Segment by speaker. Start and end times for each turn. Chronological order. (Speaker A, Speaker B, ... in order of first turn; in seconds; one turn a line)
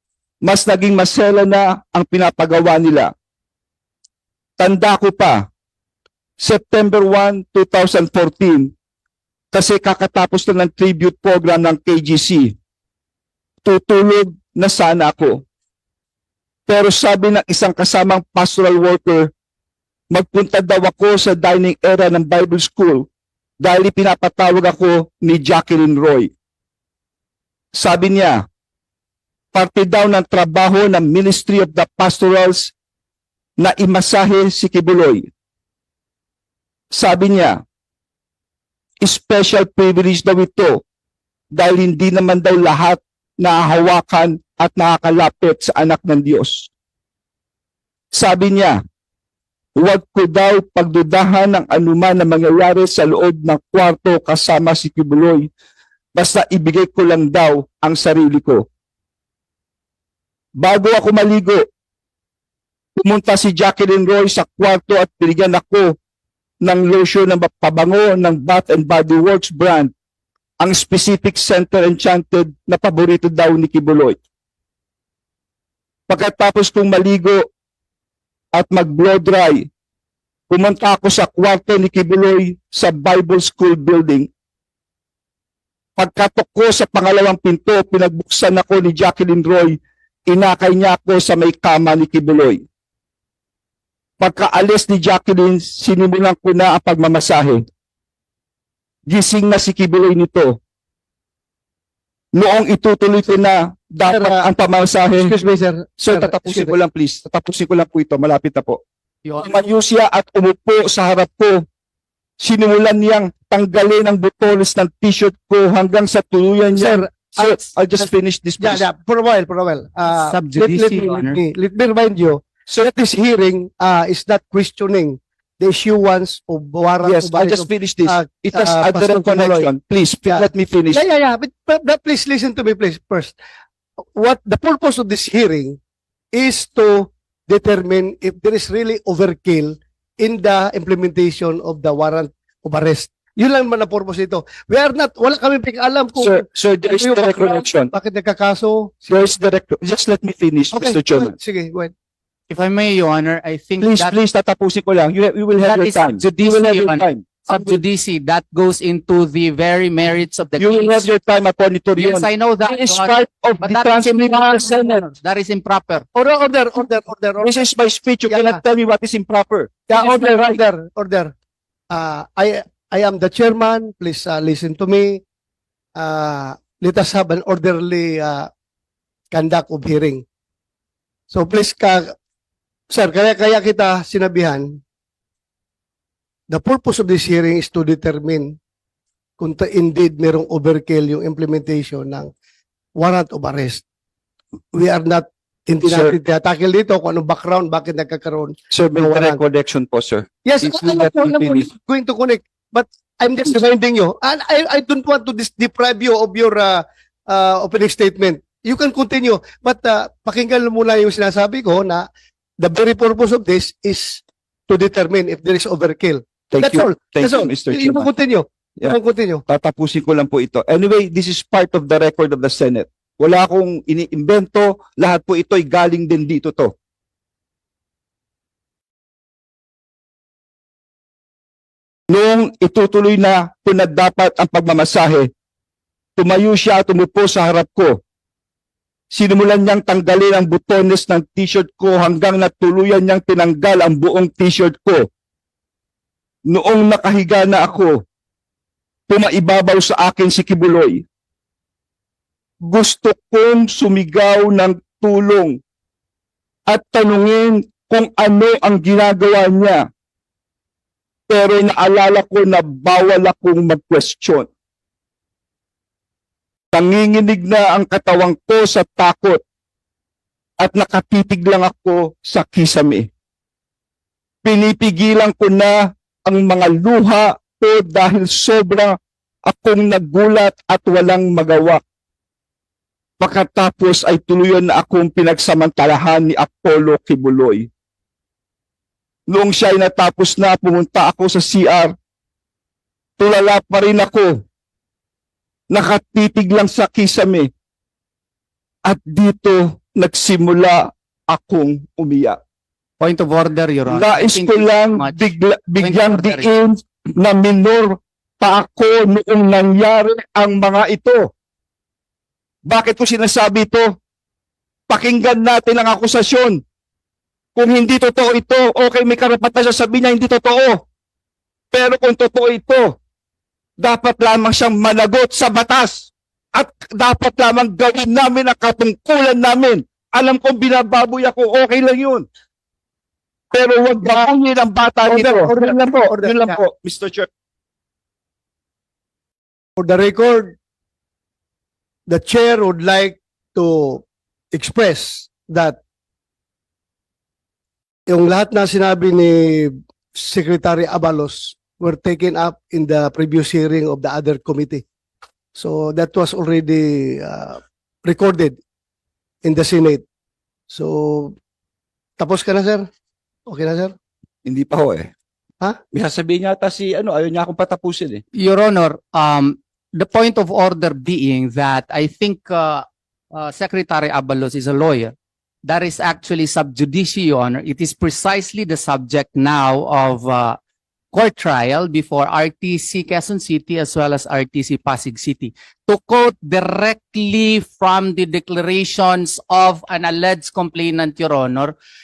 Speaker A: 0.4-3.1
Speaker A: 4.6-5.5
Speaker A: 6.4-8.7
Speaker A: 9.5-12.6
Speaker A: 13.6-15.4
Speaker A: 16.7-19.3
Speaker A: 20.1-23.1
Speaker A: 23.6-26.3
Speaker A: 27.8-28.4
Speaker A: 29.5-32.7
Speaker A: 33.6-35.3
Speaker A: 36.9-37.6
Speaker A: 39.0-40.8
Speaker A: 41.5-46.7
Speaker A: 48.1-48.8
Speaker A: 49.8-55.5
Speaker A: 56.1-58.7
Speaker A: 60.6-61.6
Speaker A: 63.0-66.0
Speaker A: 66.6-69.9
Speaker A: 70.6-74.2
Speaker A: 76.1-77.4
Speaker A: 78.5-79.7
Speaker A: 80.5-84.3
Speaker A: 86.0-89.8
Speaker A: 90.3-92.6
Speaker A: 94.2-97.7
Speaker A: 99.1-100.6
Speaker A: 102.3-105.3
Speaker B: 104.1-104.5
Speaker B: 105.2-106.8
Speaker A: 106.0-108.8
Speaker C: 109.3-109.5
Speaker A: 109.4-111.7
Speaker A: 112.4-118.8
Speaker B: 116.7-129.7
Speaker C: 120.1-121.4
Speaker A: 127.0-131.0
Speaker B: 130.3-133.4
Speaker B: 134.2-135.8
Speaker B: 136.3-149.2
Speaker A: 146.2-147.9
Speaker A: 149.1-151.3
Speaker B: 150.7-151.9
Speaker C: 152.5-154.2
Speaker A: 153.8-157.8
Speaker C: 155.6-161.1
Speaker A: 160.6-165.0
Speaker C: 162.0-166.1
Speaker B: 166.2-167.6
Speaker A: 167.4-170.6
Speaker B: 168.3-168.6
Speaker B: 169.9-171.3
Speaker B: 171.9-175.2
Speaker B: 176.0-178.5
Speaker B: 179.3-180.2
Speaker B: 181.3-182.2
Speaker B: 182.9-184.8
Speaker B: 186.5-188.6
Speaker B: 189.4-192.3
Speaker B: 193.0-193.8
Speaker B: 194.7-199.4
Speaker A: 195.9-196.2
Speaker A: 198.7-201.7
Speaker B: 200.4-212.1
Speaker B: 212.6-219.4
Speaker A: 216.5-218.1
Speaker A: 218.8-226.7
Speaker A: 232.1-235.3
Speaker A: 236.2-238.0
Speaker A: 239.1-245.1
Speaker A: 246.5-248.0
Speaker A: 249.1-251.0
Speaker A: 252.6-255.6
Speaker A: 256.7-259.9
Speaker A: 261.3-264.5
Speaker A: 266.7-269.4
Speaker A: 270.6-273.1
Speaker A: 274.4-278.9
Speaker A: 279.5-281.8
Speaker A: 283.2-287.7
Speaker A: 289.3-291.9
Speaker A: 293.2-294.4
Speaker A: 295.7-297.5
Speaker A: 298.9-302.4
Speaker C: 303.0-306.5
Speaker A: 303.9-311.3
Speaker A: 312.6-314.0
Speaker A: 314.9-316.6
Speaker A: 317.6-320.9
Speaker A: 321.7-323.0
Speaker A: 323.8-332.3
Speaker A: 333.5-337.3
Speaker B: 335.1-336.6
Speaker B: 339.8-340.5
Speaker B: 342.1-345.8
Speaker B: 348.1-354.8
Speaker B: 355.6-358.6
Speaker B: 359.4-360.0
Speaker B: 360.7-361.4
Speaker B: 362.2-362.9
Speaker B: 363.5-363.9
Speaker A: 364.4-365.1
Speaker A: 365.9-368.2
Speaker C: 368.4-380.6
Speaker C: 381.1-391.8